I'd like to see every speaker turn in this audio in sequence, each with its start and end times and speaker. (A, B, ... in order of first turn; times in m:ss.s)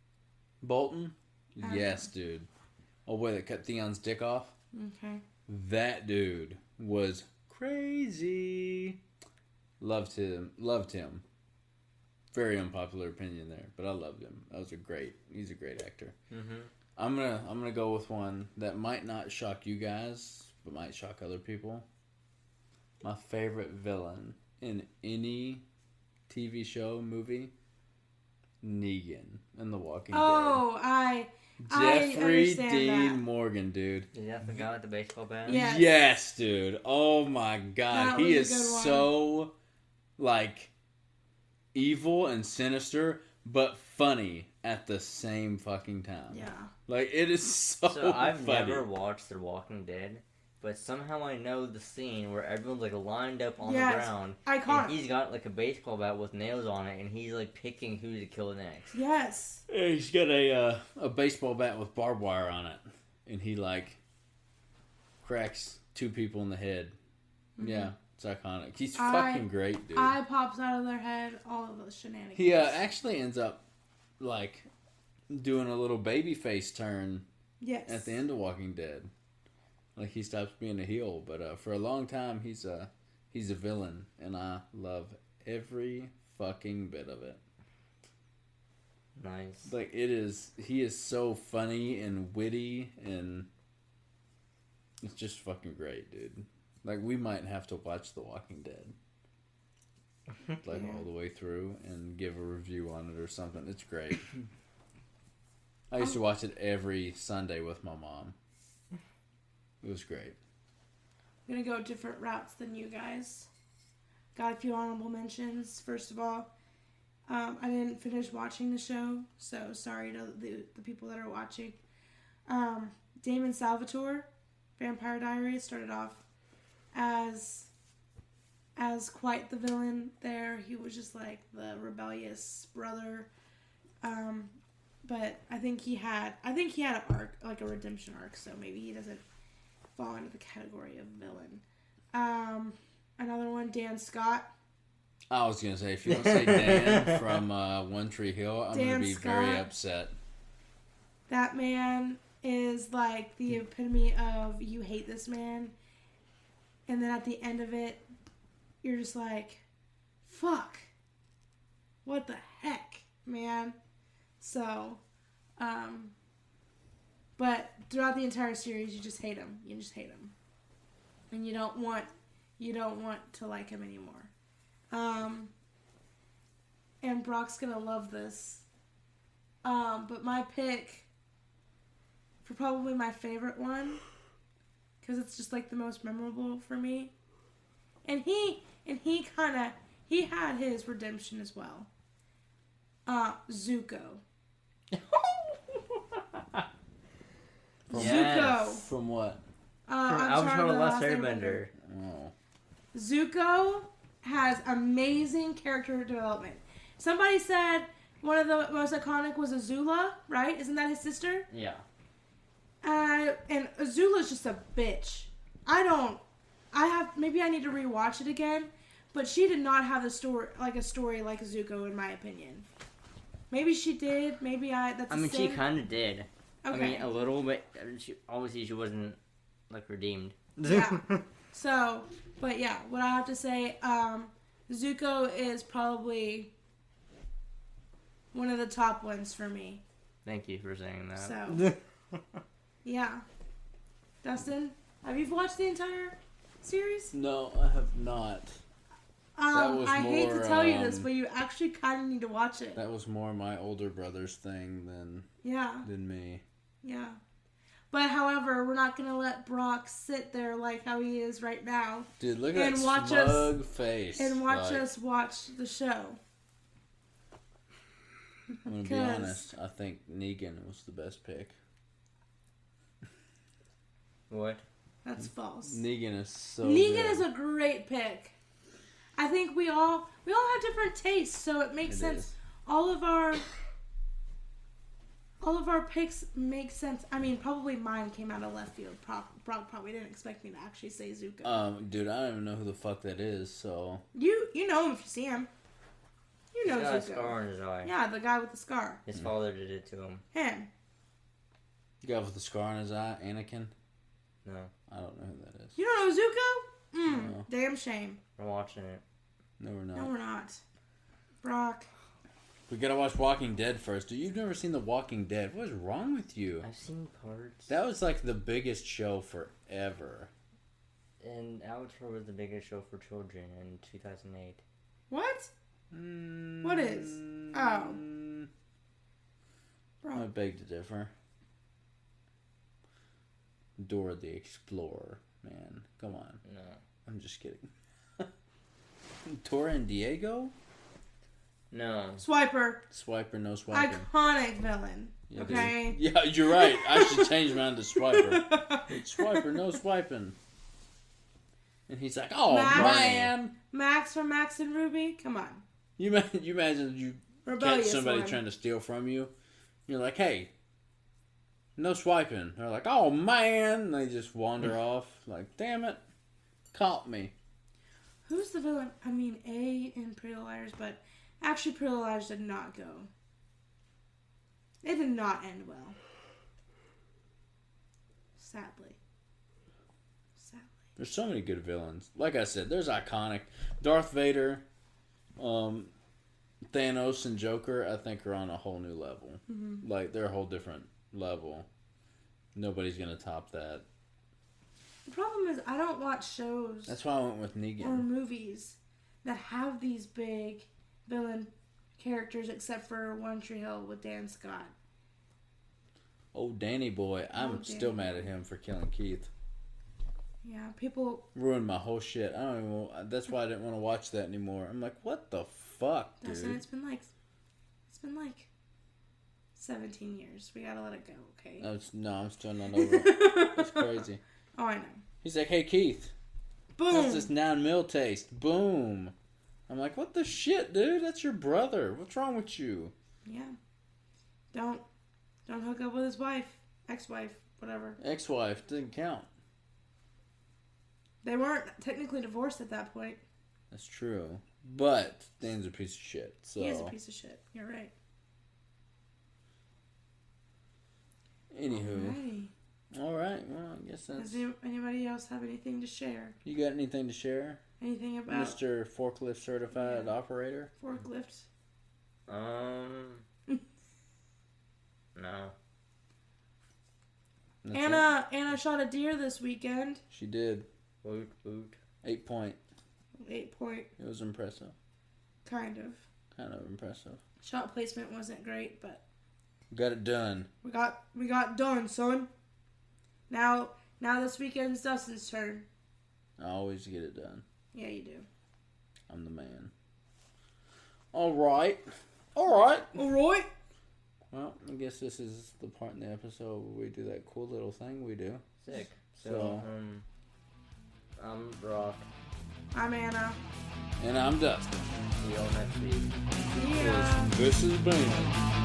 0:00.6-0:02.5 A
0:01.6-0:02.1 B
0:03.1-0:04.5 A
0:04.7-0:05.2 B
0:05.5-0:09.0 A
0:09.8-0:11.2 A
0:12.3-0:16.2 A
0:16.3-0:16.7 C
0:17.0-0:21.9 A
0:23.0-0:25.6 A
0:26.3-0:27.5 A
0:28.6-0:30.6 A
0:30.1-0:33.2 B
0:31.6-0:34.6 A
0:34.1-0:35.6 C
0:35.5-0:35.9 B
0:35.5-0:39.5 A
0:37.9-0:39.1 B
0:40.2-0:40.7 A
0:41.7-0:48.9 A
0:46.3-0:46.7 B
0:47.8-0:58.9 C
0:53.6-0:55.0 B
0:58.9-0:59.6 B
0:59.7-1:04.0 A
1:05.2-1:07.0 A
1:07.6-1:07.9 B
1:07.6-1:10.2 A
1:09.0-1:12.8 B
1:12.4-1:13.6 A
1:14.2-1:14.7 A
1:15.3-1:17.3 A
1:17.6-1:18.2 B
1:17.9-1:19.1 A
1:20.0-1:27.4 A
1:29.2-1:29.7 C
1:29.6-1:33.5 A
1:35.0-1:39.0 A
1:40.6-1:44.3 A
1:40.7-1:41.0 B
1:45.9-1:48.4 A
1:49.8-1:50.4 A
1:51.5-1:53.5 B
1:54.4-1:56.5 B
1:57.3-2:01.8 B
2:02.5-2:06.2 B
2:06.9-2:07.7 B
2:08.8-2:13.3 B
2:14.0-2:19.2 B
2:20.0-2:24.5 B
2:25.3-2:30.2 A
2:26.1-2:27.4 C
2:28.7-2:29.7 B
2:31.3-2:35.7 B
2:36.9-2:38.1 B
2:38.8-2:39.6 B
2:40.2-2:40.9 B
2:42.0-2:43.8 B
2:44.4-2:45.0 B
2:45.6-2:46.1 B
2:47.4-2:50.3 B
2:51.3-2:54.3 B
2:54.9-2:55.5 B
2:57.0-2:58.7 B
2:59.6-3:01.1 B
3:02.4-3:04.0 B
3:05.0-3:07.1 B
3:08.0-3:11.9 B
3:13.1-3:14.2 B
3:14.9-3:16.6 C
3:17.9-3:18.8 B
3:17.9-3:19.4 A
3:17.9-3:18.6 C
3:19.9-3:21.6 B
3:20.0-3:21.7 C
3:21.8-3:22.3 A
3:22.9-3:31.5 B
3:31.5-3:31.8 C
3:32.8-3:42.7 B
3:43.5-3:45.6 B
3:45.1-3:49.2 C
3:46.6-3:47.1 B
3:49.7-3:51.2 C
3:50.6-3:56.5 B
3:58.3-3:59.8 B
4:00.2-4:02.4 C
4:01.2-4:01.7 B
4:02.8-4:03.2 B
4:04.2-4:07.2 B
4:07.1-4:08.6 A
4:09.4-4:12.8 B
4:09.5-4:11.1 A
4:12.8-4:15.3 A
4:15.4-4:15.9 B
4:15.8-4:16.4 A
4:16.8-4:17.2 B
4:17.9-4:23.6 B
4:22.2-4:24.9 A
4:24.2-4:26.2 B
4:28.6-4:29.5 B
4:28.7-4:31.6 A
4:34.3-4:34.6 C
4:35.0-4:35.8 B
4:35.6-4:37.3 A
4:36.6-4:38.3 B
4:39.2-4:43.5 B
4:41.9-4:42.3 A
4:45.4-4:51.6 B
4:51.4-4:54.0 A
4:54.1-4:55.5 B
4:56.5-4:59.0 B
4:56.6-4:57.9 C
4:59.1-5:00.2 C
5:00.3-5:00.7 B
5:02.0-5:03.7 A
5:04.4-5:04.7 C
5:04.9-5:05.8 A
5:05.8-5:08.2 B
5:07.1-5:07.5 A
5:08.4-5:09.0 C
5:09.6-5:10.1 A
5:10.0-5:10.6 B
5:11.4-5:11.9 B
5:12.7-5:16.7 A
5:16.6-5:17.7 C
5:17.7-5:20.3 A
5:21.2-5:24.6 C
5:25.1-5:25.5 B
5:25.9-5:28.5 A
5:26.6-5:28.0 B
5:30.0-5:30.3 B
5:30.1-5:31.1 A
5:33.8-5:36.4 A
5:36.4-5:36.8 C
5:37.1-5:38.3 A
5:39.2-5:40.5 A
5:41.7-5:42.2 C
5:42.2-5:42.9 B
5:42.9-5:44.1 A
5:43.7-5:49.7 B
5:45.3-5:50.4 A
5:45.4-5:45.7 C
5:51.9-5:53.5 A
5:52.5-5:55.6 B
5:52.7-5:53.3 C
5:56.0-5:59.3 A
5:57.4-5:58.4 B
5:59.9-6:00.5 A
6:01.8-6:06.0 A
6:06.7-6:07.3 A
6:08.2-6:13.1 B
6:14.8-6:16.0 B
6:18.4-6:19.0 B
6:20.4-6:20.8 B
6:21.0-6:24.6 A
6:25.4-6:25.9 A
6:26.7-6:31.7 A
6:29.5-6:29.8 B
6:32.6-6:33.8 A
6:35.1-6:37.0 B
6:36.9-6:38.1 A
6:37.8-6:44.7 B
6:46.3-6:49.3 A
6:47.4-6:48.3 B
6:50.4-6:51.3 B
6:51.4-6:56.6 A
6:56.2-6:57.1 B
6:57.9-6:58.5 B
6:59.6-7:01.7 B
7:01.6-7:04.2 A
7:02.7-7:04.0 B
7:04.6-7:05.0 B
7:05.2-7:06.1 A
7:06.8-7:07.3 B
7:06.9-7:09.1 A
7:09.7-7:12.9 A
7:13.2-7:13.6 B
7:14.5-7:14.8 B
7:15.5-7:18.0 B
7:18.0-7:19.3 A
7:21.2-7:23.2 B
7:23.7-7:27.0 A
7:26.6-7:27.9 B
7:31.5-7:32.2 A
7:31.7-7:32.5 B
7:32.9-7:34.4 A
7:34.2-7:36.4 B
7:36.4-7:37.6 A
7:37.8-7:38.6 B
7:38.3-7:40.7 A
7:39.7-7:40.1 B
7:40.8-7:41.5 B
7:42.3-7:43.2 C
7:45.2-7:45.5 C
7:47.6-7:48.1 A
7:47.7-7:50.0 B
7:50.1-7:50.7 A
7:51.0-7:51.8 C
7:52.0-7:52.6 A
7:53.2-7:53.9 B
7:54.0-7:54.8 A
7:55.4-7:56.0 B
7:56.3-7:57.2 A
7:57.4-7:59.0 B
7:59.7-8:00.5 A
8:00.6-8:02.3 B
8:03.3-8:05.7 B
8:06.4-8:07.4 A
8:07.7-8:08.3 B
8:09.1-8:09.7 A
8:11.1-8:13.0 A
8:13.0-8:13.5 B
8:14.3-8:18.5 A
8:18.6-8:20.0 C
8:19.2-8:19.7 A
8:21.2-8:22.1 C
8:22.7-8:23.4 B
8:24.0-8:25.0 A
8:25.2-8:26.2 C
8:26.5-8:27.4 B
8:26.6-8:28.4 A